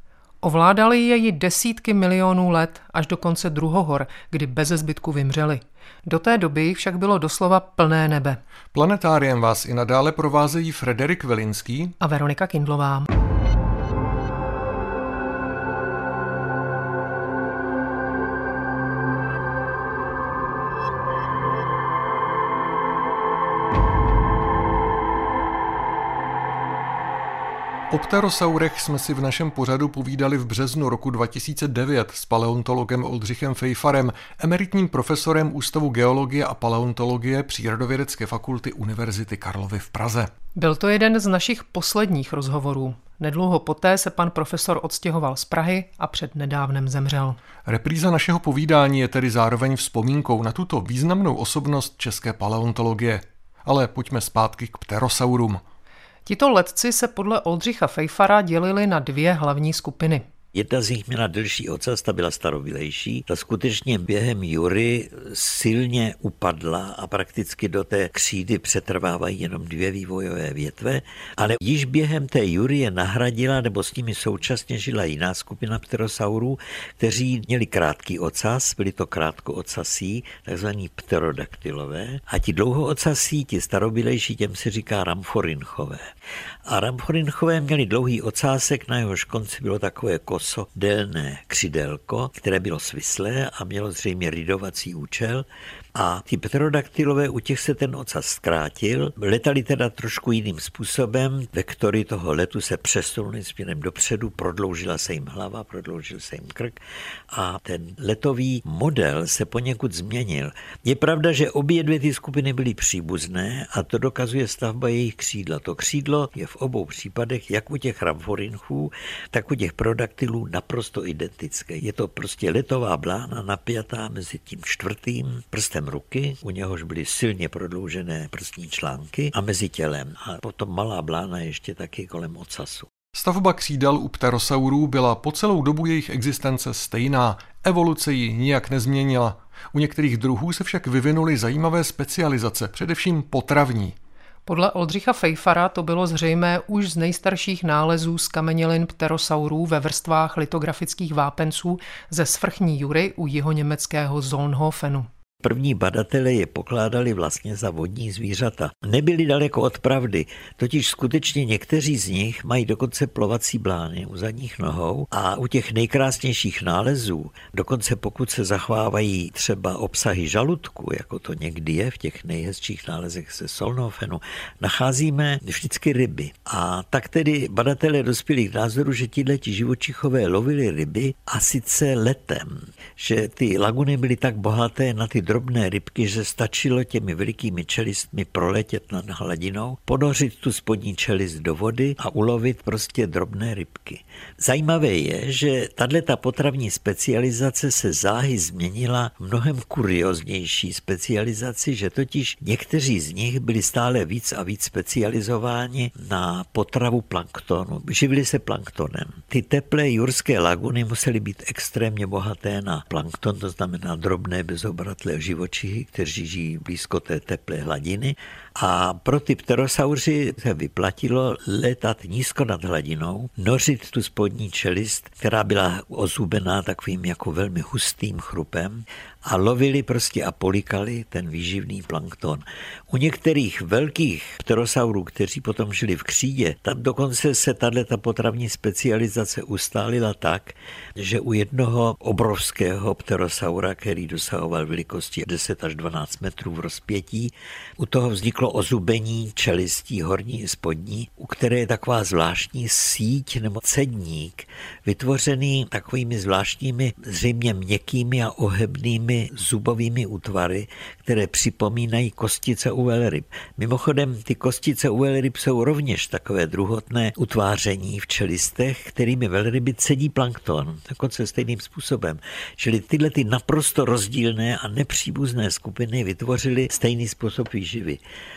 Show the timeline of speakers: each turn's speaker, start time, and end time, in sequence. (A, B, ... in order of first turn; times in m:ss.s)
0:00.4-0:08.4 A
0:08.7-0:12.0 B
0:12.0-0:13.1 A
0:27.9-0:40.3 B
0:40.6-0:47.4 A
0:47.7-0:55.6 B
0:56.3-1:00.3 A
1:00.5-1:26.1 C
1:26.7-1:46.8 C
1:47.3-2:12.9 C
2:13.1-2:24.0 B
2:24.5-2:35.1 A
2:35.4-4:38.0 C